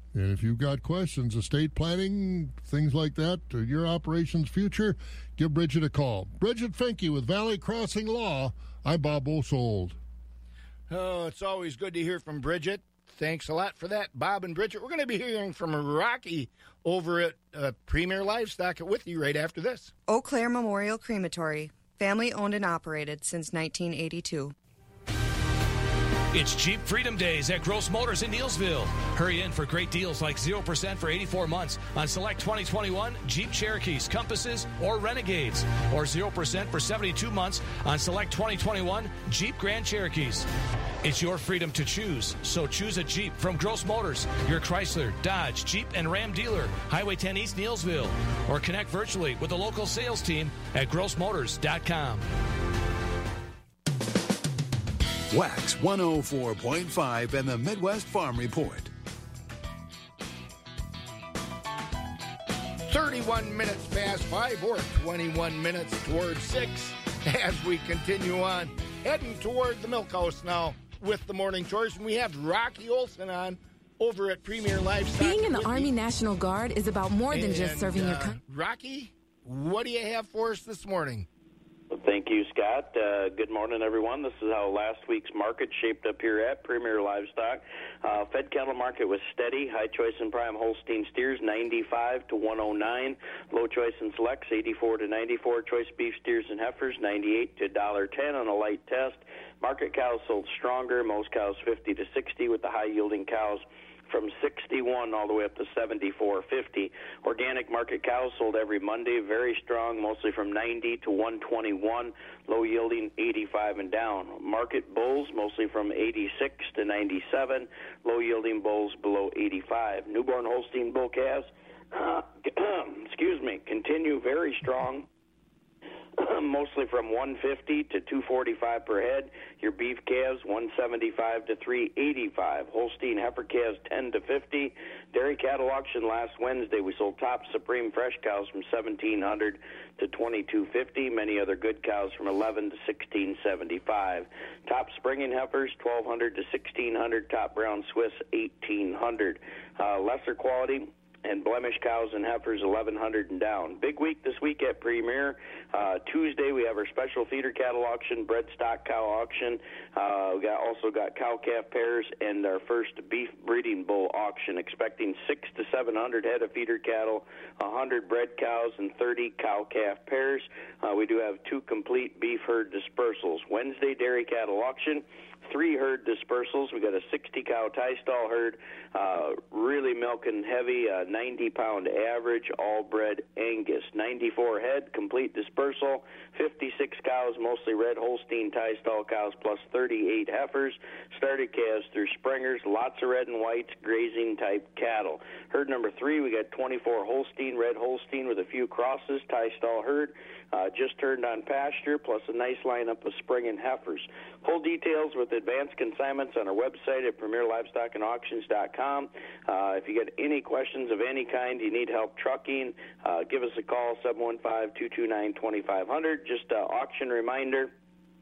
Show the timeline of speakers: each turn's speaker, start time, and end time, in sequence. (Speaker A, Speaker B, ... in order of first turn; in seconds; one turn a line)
Speaker A: 0.1-10.0
Speaker B: 10.9-19.9
Speaker C: 20.1-24.5
Speaker D: 26.3-40.5
Speaker D: 41.0-52.2
Speaker E: 55.3-58.9
Speaker B: 62.9-75.9
Speaker F: 75.1-78.4
Speaker B: 77.3-81.3
Speaker G: 81.9-125.1
Speaker G: 126.2-217.7